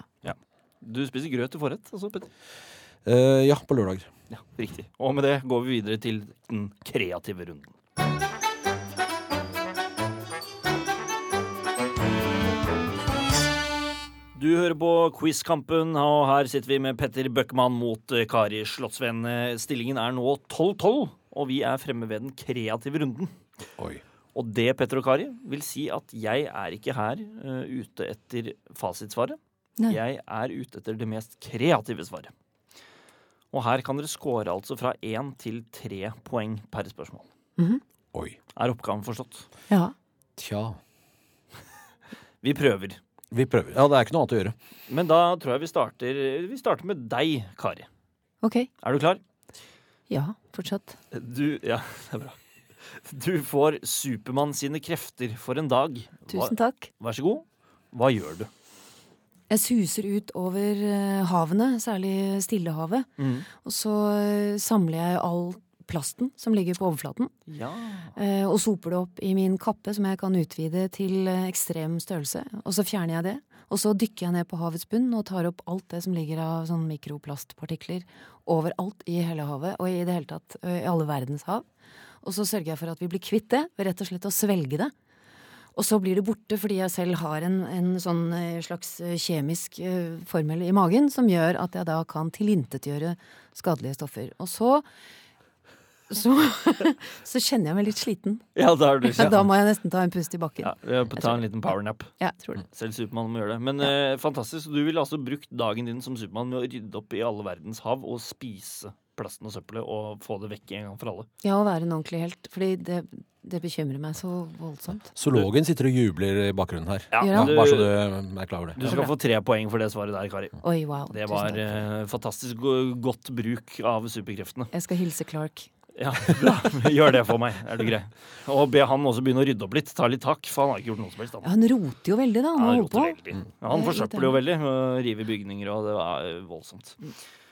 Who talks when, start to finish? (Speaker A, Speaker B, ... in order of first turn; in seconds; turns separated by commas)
Speaker A: 0.2-2.3, Speaker B: 3.0-4.1, Speaker A: 4.3-7.7, Speaker A: 14.3-23.3, Speaker B: 23.8-24.0, Speaker A: 24.4-32.3, Speaker A: 33.5-37.3, Speaker A: 38.5-39.5, Speaker B: 40.4-40.8, Speaker A: 42.4-43.0, Speaker B: 43.3-44.5, Speaker A: 44.9-47.9, Speaker C: 48.4-48.7, Speaker A: 48.8-49.2, Speaker C: 50.1-51.0, Speaker A: 51.1-58.5, Speaker C: 56.3-56.9, Speaker C: 59.5-67.3, Speaker A: 63.2-63.5, Speaker A: 67.5-68.1, Speaker C: 68.2-81.6, Speaker C: 82.2-84.9, Speaker C: 85.7-94.8, Speaker C: 96.1-98.4, Speaker A: 98.5-99.5, Speaker C: 99.0-101.4, Speaker A: 100.6-102.1, Speaker C: 102.2-102.6, Speaker A: 102.7-111.3, Speaker C: 111.4-115.1, Speaker B: 115.1-119.0, Speaker A: 117.1-118.0, Speaker C: 117.2-117.6, Speaker A: 118.8-124.7, Speaker C: 118.8-119.1, Speaker C: 120.6-121.6, Speaker C: 124.7-125.7, Speaker A: 126.0-131.5, Speaker C: 131.4-134.4, Speaker A: 132.5-137.0